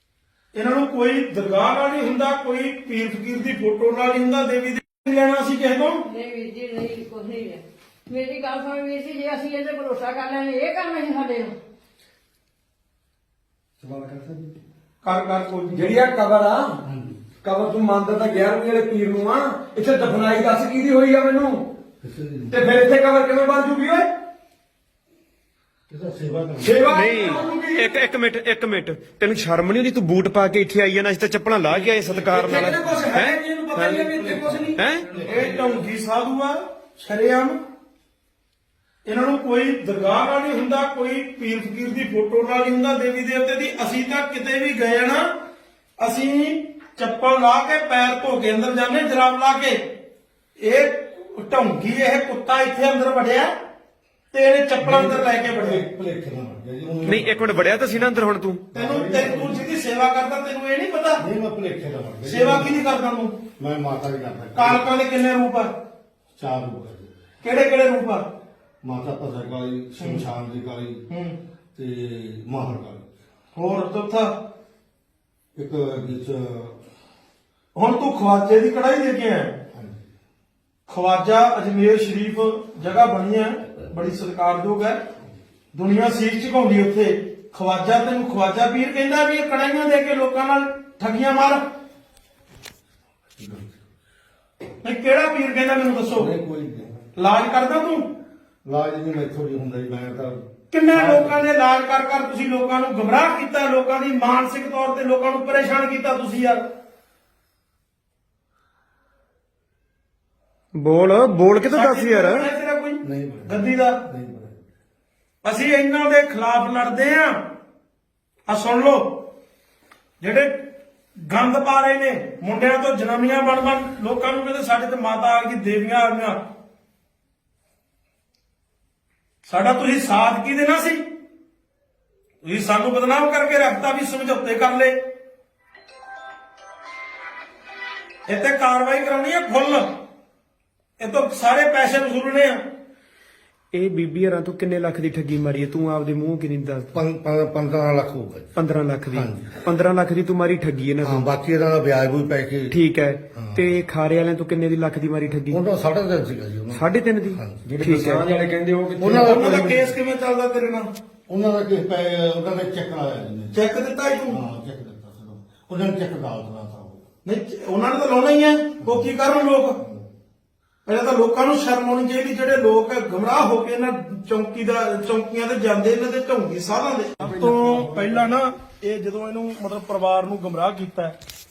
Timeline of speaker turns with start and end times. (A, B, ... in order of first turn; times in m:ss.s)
0:00.5-0:06.1 A
0:06.0-0:11.5 B
0:13.8-0:14.5 C
0:15.0-0:16.0 A
0:15.8-0:16.7 D
0:16.8-0:17.2 C
0:17.4-0:21.6 D
0:22.0-0:22.6 C
0:22.5-0:24.1 D
0:25.9-0:26.9 C
0:26.6-0:28.0 D
0:26.9-0:34.2 E
0:31.7-0:34.8 D
0:34.1-0:35.6 C
0:34.8-0:35.0 E
0:35.2-0:37.6 A
0:39.0-0:45.3 A
0:46.0-0:49.8 A
0:50.6-0:53.5 A
0:54.3-0:55.8 A
0:54.8-0:59.6 C
0:57.0-0:58.6 E
0:58.7-1:01.2 A
1:01.2-1:02.8 C
1:02.3-1:03.4 A
1:03.6-1:04.9 C
1:04.6-1:05.7 A
1:06.4-1:07.1 C
1:07.4-1:08.3 A
1:08.8-1:11.1 C
1:10.0-1:10.3 A
1:11.1-1:11.4 A
1:11.8-1:13.1 C
1:13.6-1:14.4 A
1:15.6-1:16.8 C
1:17.8-1:19.6 A
1:19.7-1:20.0 C
1:20.9-1:25.0 A
1:25.7-1:31.6 A
1:33.4-1:33.8 C
1:34.8-1:36.3 A
1:36.1-1:37.0 C
1:37.2-1:38.0 A
1:38.7-1:41.4 C
1:40.7-1:46.6 A
1:50.8-1:52.5 E
1:51.6-1:54.0 A
1:53.0-1:54.7 C
1:55.4-1:57.4 A
1:58.5-1:59.3 A
2:00.2-2:00.5 A
2:01.3-2:06.4 A
2:09.5-2:11.0 A
2:12.4-2:15.0 A
2:18.3-2:20.0 A
2:21.0-2:22.6 A
2:23.7-2:26.9 E
2:26.9-2:28.5 C
2:28.6-2:31.3 E
2:29.1-2:29.6 C
2:31.0-2:32.8 C
2:32.7-2:35.6 E
2:33.3-2:33.7 C
2:35.5-2:37.7 C
2:36.7-2:38.3 E
2:37.6-2:39.7 D
2:39.0-2:39.6 C
2:39.1-2:40.9 A
2:41.3-2:43.6 C
2:43.5-2:44.4 A
2:44.3-2:47.0 C
2:47.2-2:49.8 A
2:48.8-2:49.1 C
2:50.9-3:01.2 A
2:57.2-2:58.4 C